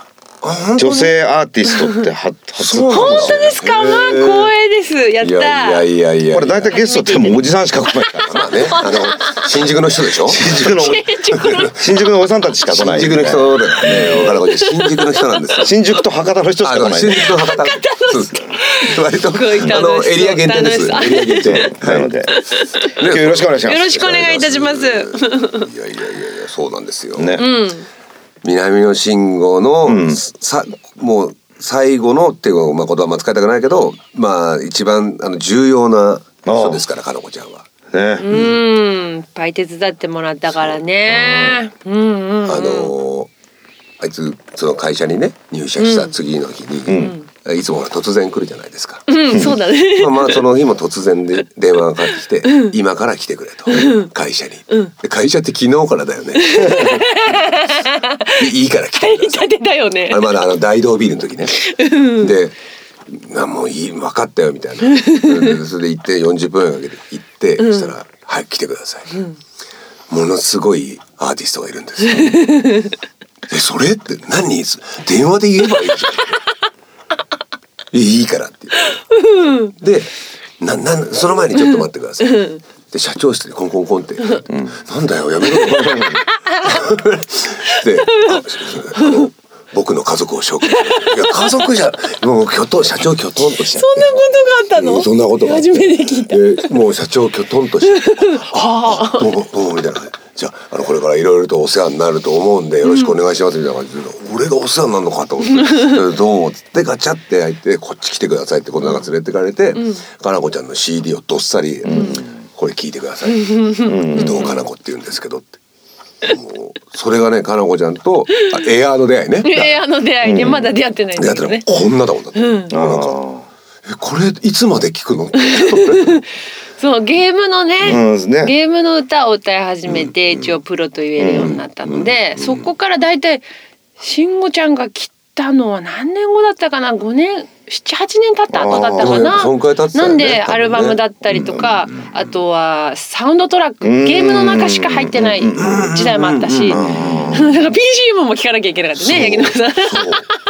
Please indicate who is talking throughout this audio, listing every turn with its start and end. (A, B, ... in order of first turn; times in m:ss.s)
0:00.4-0:01.1 A
0:00.8-0:03.6 B
0:02.6-0:04.5 A
0:02.9-0:05.8 C
0:05.2-0:06.7 A
0:06.3-0:08.9 B
0:06.6-0:09.7 C
0:08.3-0:11.7 A
0:10.2-0:14.4 B
0:10.5-0:12.1 C
0:12.6-0:15.7 A
0:14.1-0:15.7 C
0:15.6-0:17.4 B
0:16.6-0:22.1 A
0:17.2-0:21.7 C
0:21.4-0:22.3 B
0:22.3-0:23.0 C
0:22.8-0:27.4 A
0:23.0-0:23.9 B
0:23.6-0:25.7 C
0:27.1-0:27.5 B
0:27.4-0:27.9 C
0:28.4-0:37.7 A
0:29.8-0:30.2 B
0:36.4-0:36.8 B
0:37.9-0:38.3 B
0:38.2-0:42.9 C
0:38.3-0:38.6 A
0:41.1-0:41.6 B
0:42.4-0:43.3 A
0:44.0-0:57.4 A
0:45.8-0:46.1 C
0:46.9-0:47.1 B
0:46.9-0:47.2 C
0:49.1-0:50.5 C
0:52.4-0:52.7 C
0:53.7-0:54.1 C
0:56.4-1:00.2 C
0:58.4-0:59.5 A
1:00.1-1:02.5 A
1:01.6-1:02.3 C
1:03.1-1:09.2 A
1:04.9-1:05.6 C
1:07.6-1:07.9 C
1:10.1-1:12.5 A
1:12.1-1:12.9 C
1:13.5-1:16.4 A
1:17.9-1:19.0 A
1:19.1-1:19.7 C
1:19.7-1:34.2 A
1:21.6-1:22.6 C
1:24.5-1:24.7 B
1:25.5-1:26.8 C
1:27.7-1:28.4 C
1:28.9-1:29.3 C
1:30.6-1:31.7 C
1:33.4-1:36.7 C
1:34.7-1:53.6 A
1:37.8-1:39.3 C
1:42.8-1:43.2 C
1:45.6-1:46.0 C
1:49.8-1:50.0 C
1:51.8-1:52.2 B
1:51.9-1:52.2 C
1:53.3-1:54.6 C
1:53.8-1:54.5 B
1:54.1-1:55.6 A
1:56.2-1:59.8 A
1:59.4-2:02.7 C
2:00.2-2:00.7 B
2:01.2-2:03.2 A
2:02.7-2:03.4 B
2:03.8-2:06.2 A
2:05.4-2:06.2 C
2:06.8-2:13.4 C
2:07.8-2:08.5 B
2:09.9-2:10.6 A
2:11.2-2:11.5 B
2:11.4-2:12.7 A
2:14.0-2:26.8 C
2:18.5-2:19.4 B
2:19.0-2:22.2 A
2:23.8-2:25.8 B
2:25.6-2:27.6 A
2:26.7-2:27.6 B
2:27.3-2:30.2 C
2:29.0-2:30.2 A